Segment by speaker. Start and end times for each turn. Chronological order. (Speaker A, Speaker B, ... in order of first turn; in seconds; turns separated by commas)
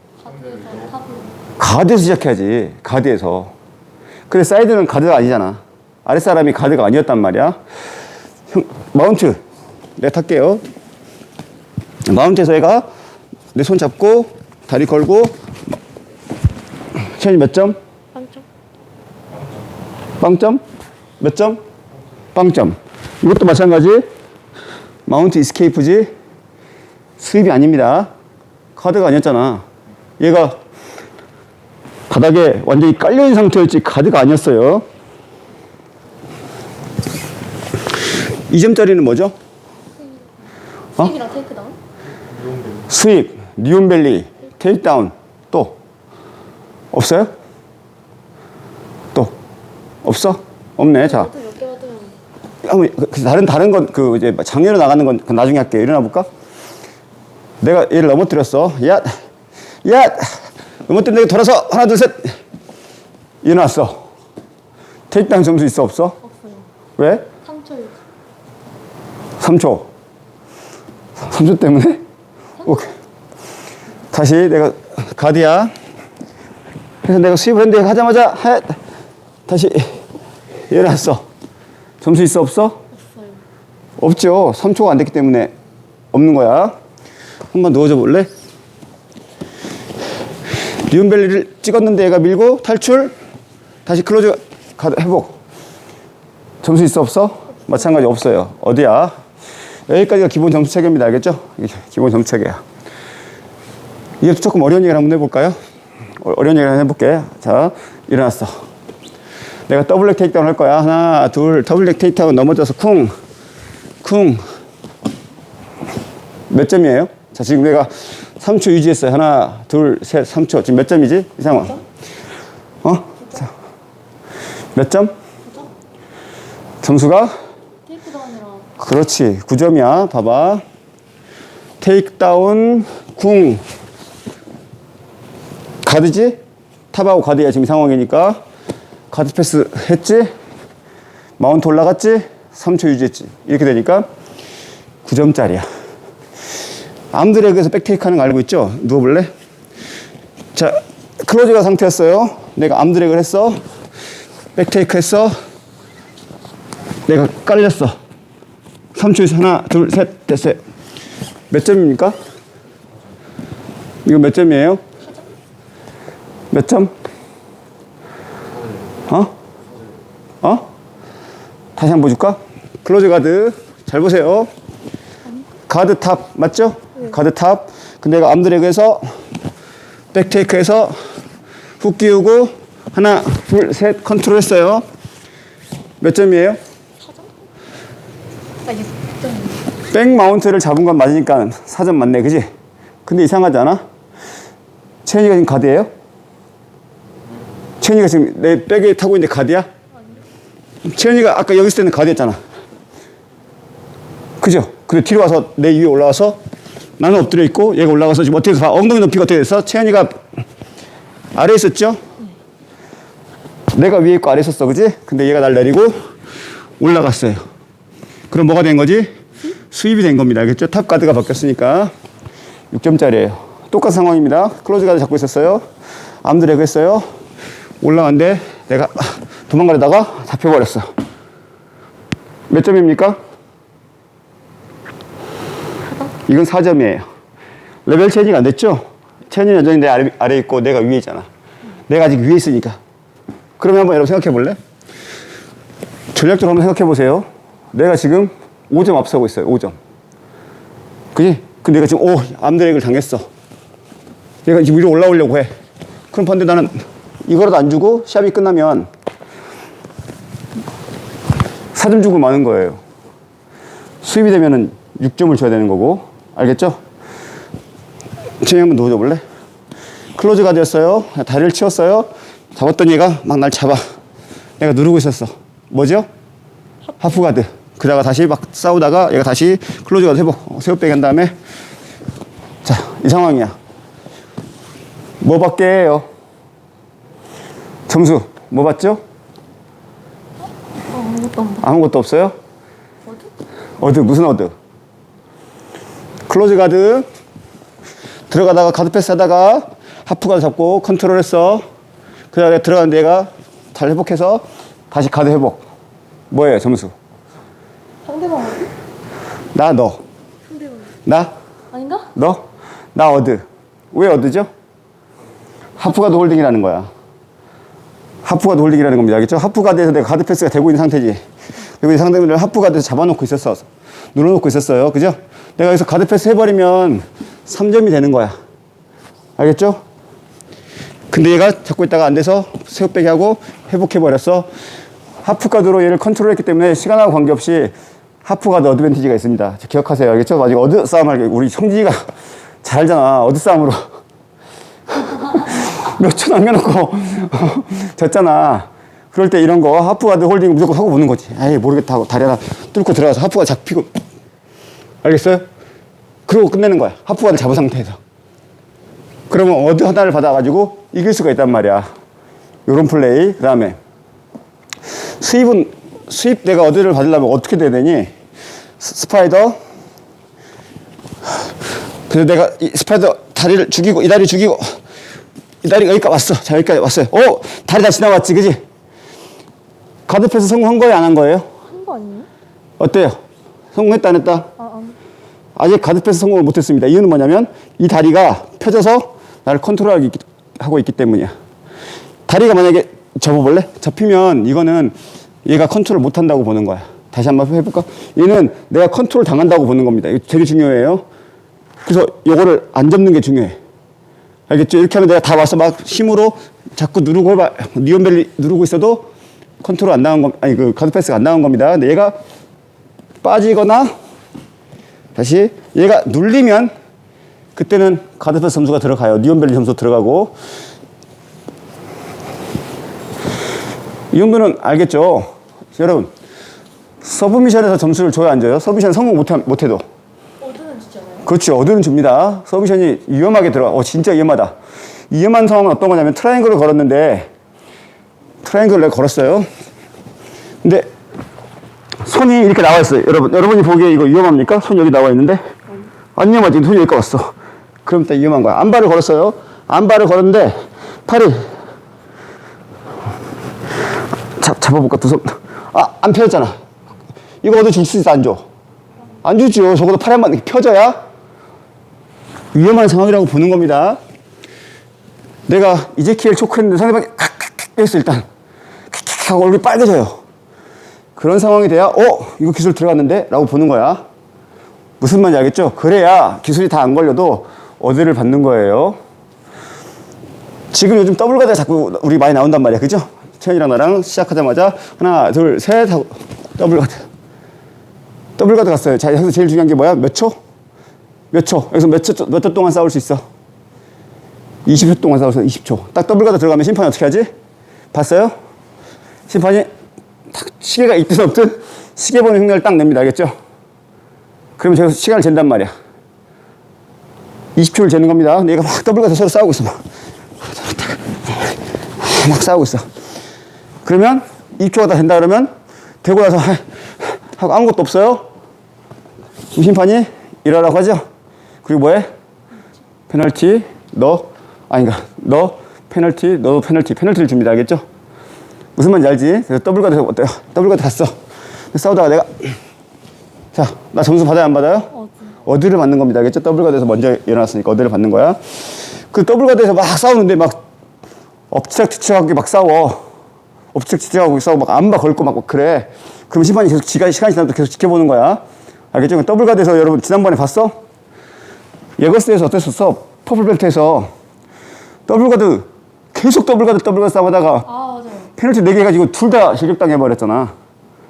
Speaker A: 0.2-1.4, Speaker B: 1.6-3.5, Speaker B: 4.3-7.6, Speaker B: 8.5-9.4, Speaker B: 10.0-10.6, Speaker B: 12.1-12.8, Speaker B: 13.5-15.3, Speaker B: 17.0-17.8, Speaker A: 18.1-18.4, Speaker B: 20.2-20.6, Speaker B: 21.2-21.6, Speaker B: 22.3-24.0, Speaker B: 25.1-26.1, Speaker B: 27.2-28.1, Speaker B: 28.8-29.6, Speaker B: 30.2-30.6, Speaker B: 32.1-34.8, Speaker B: 38.5-39.3, Speaker A: 41.0-41.8, Speaker B: 42.8-45.8, Speaker B: 46.9-47.3, Speaker B: 50.0-51.3, Speaker A: 51.0-52.2, Speaker B: 52.6-56.3, Speaker B: 57.6-59.1, Speaker B: 59.8-62.4, Speaker B: 63.4-64.0, Speaker B: 65.1-66.2, Speaker A: 66.2-66.7, Speaker B: 67.0-67.3, Speaker A: 67.4-68.0, Speaker B: 69.4-69.9, Speaker B: 71.2-72.0, Speaker B: 72.6-72.9, Speaker B: 74.1-75.7, Speaker B: 77.0-78.8, Speaker B: 79.5-80.0, Speaker B: 80.7-81.2, Speaker B: 82.0-82.8, Speaker A: 83.0-83.4, Speaker B: 84.0-85.5, Speaker B: 86.1-86.7, Speaker B: 87.5-88.3, Speaker B: 90.8-93.1, Speaker B: 93.8-95.4, Speaker B: 96.6-99.1, Speaker B: 99.9-102.6, Speaker B: 104.2-105.5, Speaker B: 106.2-108.6, Speaker B: 109.7-113.1, Speaker B: 114.0-114.4, Speaker B: 116.5-121.8, Speaker B: 122.8-123.5, Speaker B: 124.7-125.1, Speaker B: 126.8-127.3, Speaker A: 127.9-128.7, Speaker B: 128.8-130.6, Speaker B: 131.8-133.6, Speaker B: 135.8-136.4, Speaker B: 136.9-138.4, Speaker B: 139.1-140.3, Speaker B: 141.4-144.1, Speaker B: 145.0-145.6, Speaker B: 147.1-149.3, Speaker B: 150.5-153.6, Speaker B: 154.6-155.3, Speaker B: 157.1-157.9, Speaker B: 158.9-160.6, Speaker B: 161.5-162.2, Speaker B: 164.0-164.8, Speaker B: 166.5-166.9, Speaker B: 169.1-169.3, Speaker B: 170.4-170.7, Speaker B: 171.8-174.5, Speaker B: 175.7-179.0, Speaker B: 180.1-181.0, Speaker B: 181.8-184.8, Speaker B: 186.0-186.6, Speaker A: 188.6-189.6, Speaker B: 189.9-192.4, Speaker B: 193.1-193.8, Speaker B: 195.0-195.9, Speaker B: 197.8-199.7, Speaker B: 200.8-202.4, Speaker B: 204.4-206.4, Speaker B: 207.0-210.2, Speaker B: 211.3-212.0, Speaker B: 213.7-215.9, Speaker B: 216.8-217.4, Speaker B: 218.3-219.1, Speaker B: 219.7-221.9, Speaker B: 222.7-225.6, Speaker B: 226.2-227.0, Speaker B: 227.8-230.9, Speaker B: 232.5-233.2, Speaker B: 236.1-237.0, Speaker B: 237.8-241.3, Speaker B: 241.9-242.8, Speaker B: 243.6-244.6, Speaker B: 246.1-249.8, Speaker B: 251.1-253.2, Speaker B: 254.4-255.5, Speaker B: 256.1-258.9, Speaker B: 261.7-262.8, Speaker B: 264.0-266.8, Speaker B: 268.4-269.2, Speaker B: 270.1-273.8, Speaker B: 274.6-276.1, Speaker B: 277.0-281.3, Speaker B: 282.6-283.5, Speaker B: 285.2-286.1, Speaker B: 287.9-289.0, Speaker A: 290.9-291.6, Speaker B: 291.6-292.3, Speaker B: 293.8-294.5, Speaker B: 296.3-297.1, Speaker B: 298.3-301.6, Speaker B: 302.3-305.6, Speaker B: 306.3-306.9, Speaker A: 308.1-308.7, Speaker B: 309.5-310.0, Speaker A: 310.5-310.8, Speaker B: 311.0-311.3, Speaker A: 311.7-312.1, Speaker B: 312.1-312.4, Speaker B: 312.9-314.5, Speaker B: 315.8-316.9, Speaker B: 318.2-321.2, Speaker B: 321.8-328.3, Speaker B: 329.4-329.8, Speaker B: 331.1-334.5, Speaker B: 335.2-337.7, Speaker B: 338.2-342.0, Speaker B: 342.6-343.8, Speaker B: 344.9-353.9, Speaker B: 355.0-355.4, Speaker B: 356.3-358.0, Speaker B: 359.3-361.9, Speaker B: 362.7-363.8, Speaker B: 365.0-368.1, Speaker B: 368.8-369.6, Speaker B: 372.1-374.8, Speaker B: 375.6-378.6, Speaker B: 380.1-381.5, Speaker A: 381.7-382.3, Speaker B: 382.8-383.2, Speaker B: 383.7-384.5, Speaker A: 384.6-384.9, Speaker B: 385.6-391.3, Speaker B: 392.3-401.0, Speaker B: 401.8-403.6, Speaker B: 404.5-409.1, Speaker B: 409.6-412.1, Speaker B: 413.2-413.9, Speaker B: 415.1-416.7, Speaker B: 417.6-420.3, Speaker B: 424.1-426.1, Speaker B: 427.0-429.8, Speaker A: 430.4-431.2, Speaker B: 431.2-434.5, Speaker B: 435.1-437.3, Speaker B: 438.4-439.5, Speaker B: 440.6-440.9, Speaker B: 442.0-445.4, Speaker B: 446.1-447.3, Speaker B: 447.8-450.5, Speaker B: 451.1-451.4, Speaker B: 454.4-456.6, Speaker B: 457.4-458.4, Speaker B: 459.2-461.0, Speaker B: 462.5-464.0, Speaker B: 465.5-468.2, Speaker B: 468.9-470.2, Speaker B: 471.1-474.0, Speaker B: 475.0-479.0, Speaker B: 480.7-487.0, Speaker B: 488.4-490.3, Speaker B: 491.3-493.2, Speaker B: 494.6-497.3, Speaker B: 497.9-498.3, Speaker B: 499.3-499.7, Speaker B: 500.3-503.3, Speaker B: 504.6-505.7, Speaker B: 507.6-509.8, Speaker B: 510.5-512.8, Speaker B: 513.8-515.5, Speaker B: 516.0-518.2, Speaker B: 519.5-521.0, Speaker B: 521.6-522.1, Speaker B: 523.1-527.8, Speaker B: 528.8-531.1, Speaker B: 531.7-532.5, Speaker B: 533.5-538.4, Speaker B: 539.1-540.6, Speaker B: 541.5-543.0, Speaker B: 543.7-548.4, Speaker B: 548.9-550.7, Speaker B: 552.0-554.1, Speaker B: 555.1-557.7, Speaker A: 557.7-558.3, Speaker B: 558.3-560.5